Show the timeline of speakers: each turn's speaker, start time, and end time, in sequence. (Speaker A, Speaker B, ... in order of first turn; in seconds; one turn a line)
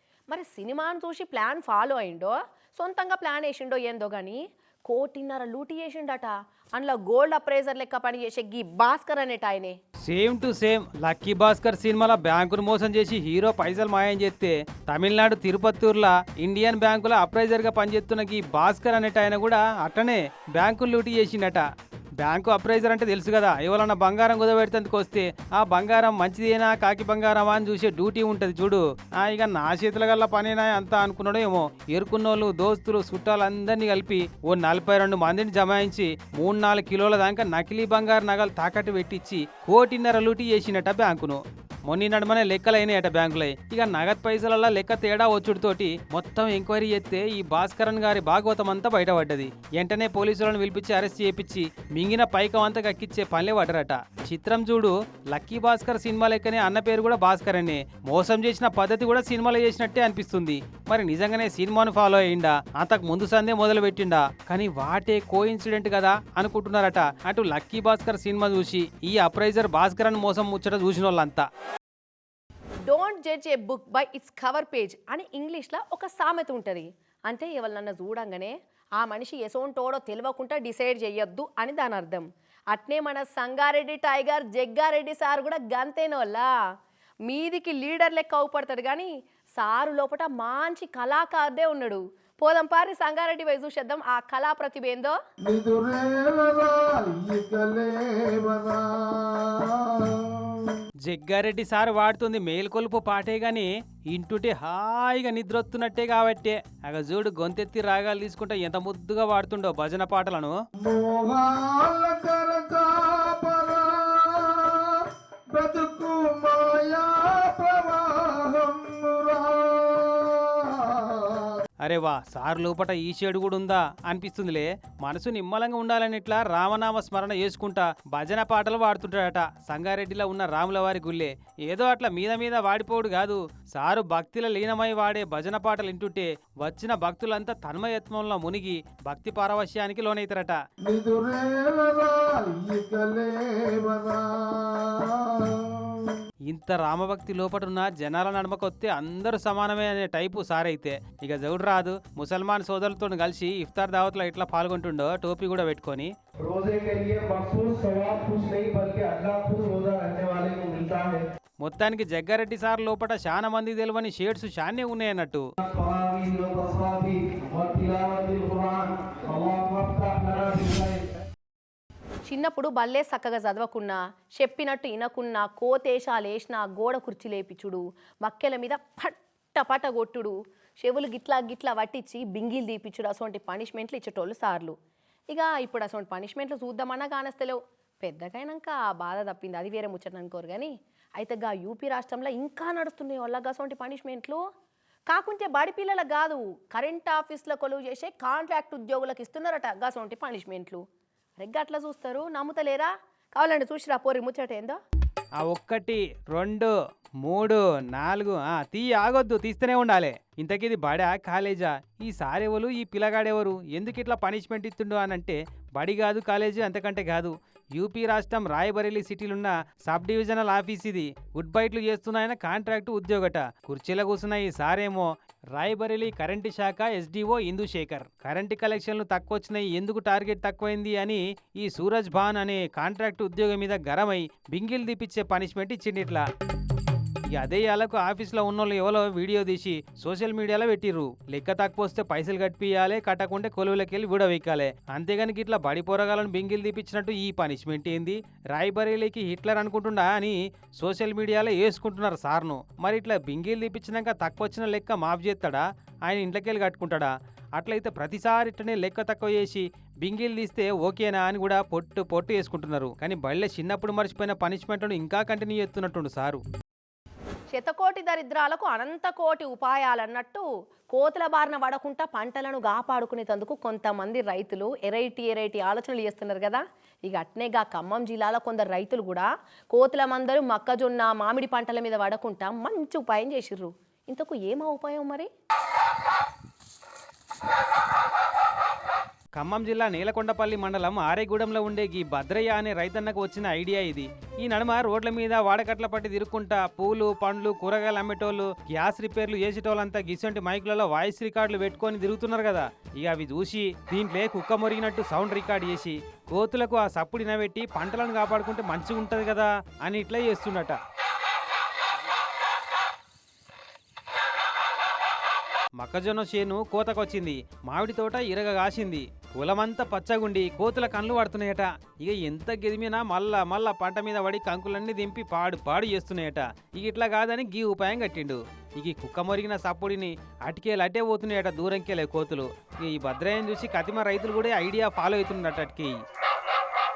Speaker A: 0.3-9.8
Speaker B: 10.1-21.6
Speaker B: 22.2-71.5
Speaker A: 72.9-86.5
Speaker A: 87.2-95.2
Speaker C: 95.4-100.8
Speaker B: 101.0-110.5
Speaker C: 110.8-121.6
Speaker B: 121.8-140.6
Speaker C: 140.8-146.2
Speaker B: 146.5-156.1
Speaker D: 156.4-161.2
Speaker B: 161.6-165.5
Speaker D: 165.6-171.1
Speaker A: 172.2-184.7
Speaker A: 185.3-194.4
Speaker A: 195.1-200.8
Speaker A: 201.4-204.8
Speaker B: 205.4-206.7
Speaker B: 207.2-236.2
Speaker B: 237.3-266.4
Speaker A: 267.5-285.3
Speaker B: 289.4-310.8
Speaker B: 315.8-336.0